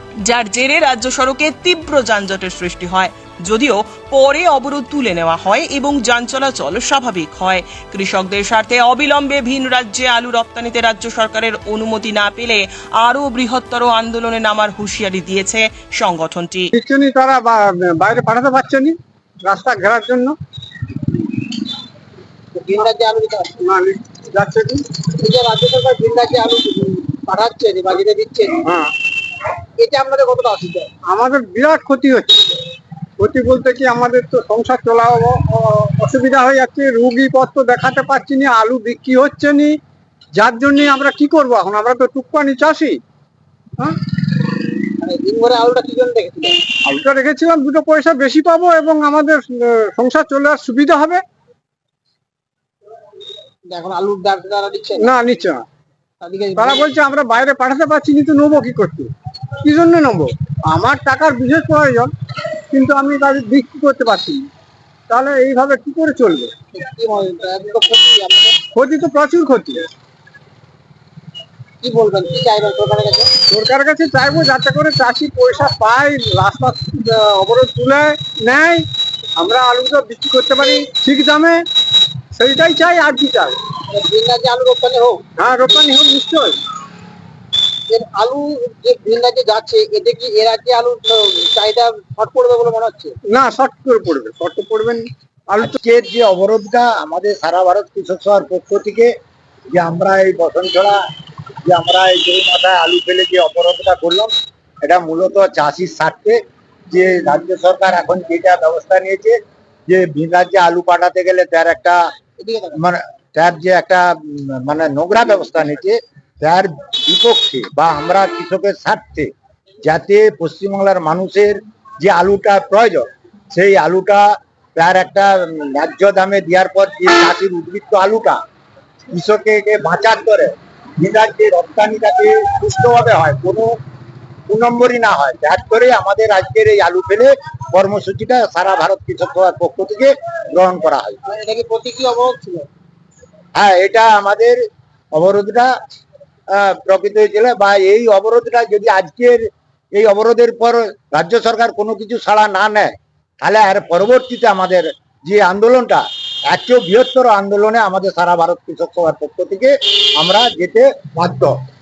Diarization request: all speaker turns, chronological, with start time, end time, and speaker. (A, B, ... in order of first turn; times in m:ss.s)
0:00.2-0:16.7 A
0:16.7-0:20.4 B
0:22.5-0:23.6 C
0:23.6-0:25.0 B
0:25.1-0:28.7 C
0:28.7-0:28.9 B
0:29.8-0:30.9 C
0:31.0-0:32.6 B
0:33.2-0:39.8 B
0:40.3-0:43.0 B
0:45.0-0:46.7 C
0:46.8-0:51.2 B
0:53.7-0:55.1 C
0:55.0-0:55.6 B
0:56.2-0:56.8 C
0:56.6-1:02.1 B
1:02.7-1:04.5 B
1:05.1-1:06.5 B
1:06.7-1:08.6 C
1:08.7-1:09.8 B
1:11.8-1:13.3 C
1:13.4-1:18.8 B
1:19.4-1:21.6 B
1:22.3-1:23.7 B
1:23.8-1:25.3 C
1:25.4-1:26.6 B
1:27.9-1:33.2 C
1:33.2-1:35.7 B
1:35.6-1:39.1 D
1:39.7-1:41.0 D
1:41.7-1:44.3 D
1:44.8-1:46.4 D
1:46.9-1:49.4 D
1:49.9-1:52.0 D
1:52.4-1:52.8 C
1:52.7-1:59.3 D
1:59.8-2:08.4 D
2:09.1-2:13.8 D
2:14.5-2:21.2 D
2:21.3-2:22.7 C
2:23.6-2:24.6 D
2:25.1-2:25.7 D
2:26.5-2:32.9 D
2:33.4-2:41.6 D